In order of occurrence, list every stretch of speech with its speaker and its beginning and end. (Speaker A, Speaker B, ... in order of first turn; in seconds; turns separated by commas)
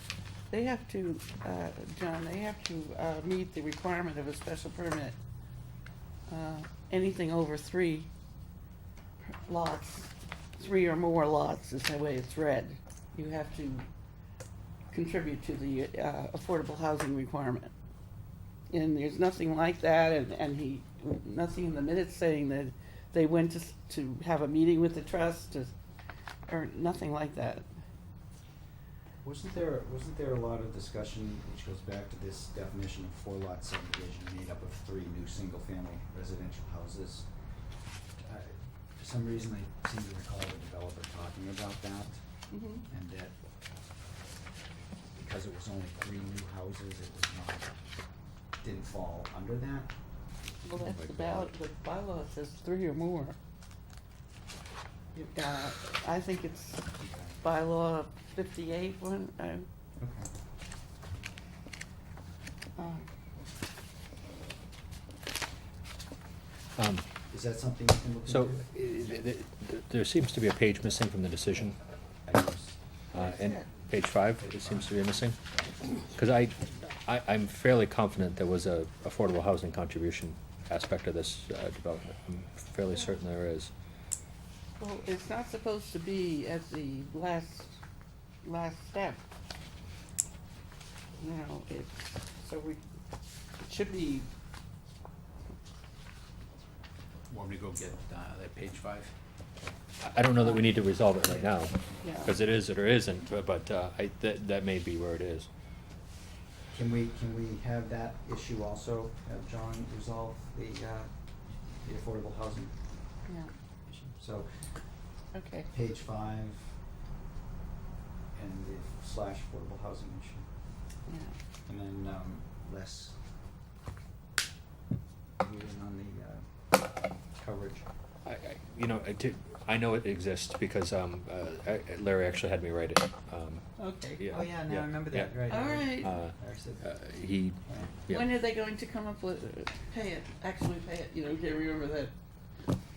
Speaker A: 0.5-5.2, Speaker A: 6.3-8.1, Speaker A: 9.3-13.9, Speaker A: 14.9-17.7, Speaker A: 18.7-25.8, Speaker A: 26.5-27.7, Speaker B: 29.2-37.3, Speaker B: 38.2-42.2, Speaker A: 42.5-42.8, Speaker B: 42.9-43.3, Speaker B: 45.2-47.8, Speaker B: 48.6-49.9, Speaker A: 50.7-53.4, Speaker B: 50.7-51.5, Speaker A: 55.1-56.9, Speaker B: 57.0-57.4, Speaker A: 57.4-59.7, Speaker B: 60.0-60.3, Speaker A: 62.8-63.1, Speaker C: 66.8-67.1, Speaker B: 67.3-69.1, Speaker C: 68.3-71.8, Speaker B: 72.2-72.8, Speaker C: 73.1-75.4, Speaker A: 73.1-73.7, Speaker B: 74.4-75.0, Speaker C: 76.0-83.7, Speaker A: 84.8-87.8, Speaker A: 88.4-89.2, Speaker A: 91.2-92.8, Speaker A: 93.6-94.3, Speaker B: 97.3-99.1, Speaker C: 100.0-105.5, Speaker A: 100.4-100.7, Speaker B: 101.2-101.5, Speaker A: 102.0-102.3, Speaker B: 106.7-112.7, Speaker B: 113.9-114.5, Speaker A: 115.3-115.7, Speaker B: 115.7-116.7, Speaker B: 118.3-120.5, Speaker A: 121.1-121.3, Speaker B: 121.7-123.2, Speaker B: 125.4-126.5, Speaker B: 127.3-127.8, Speaker C: 128.2-138.3, Speaker A: 133.8-134.2, Speaker B: 134.3-136.9, Speaker A: 135.5-136.2, Speaker B: 137.7-137.9, Speaker A: 138.1-142.1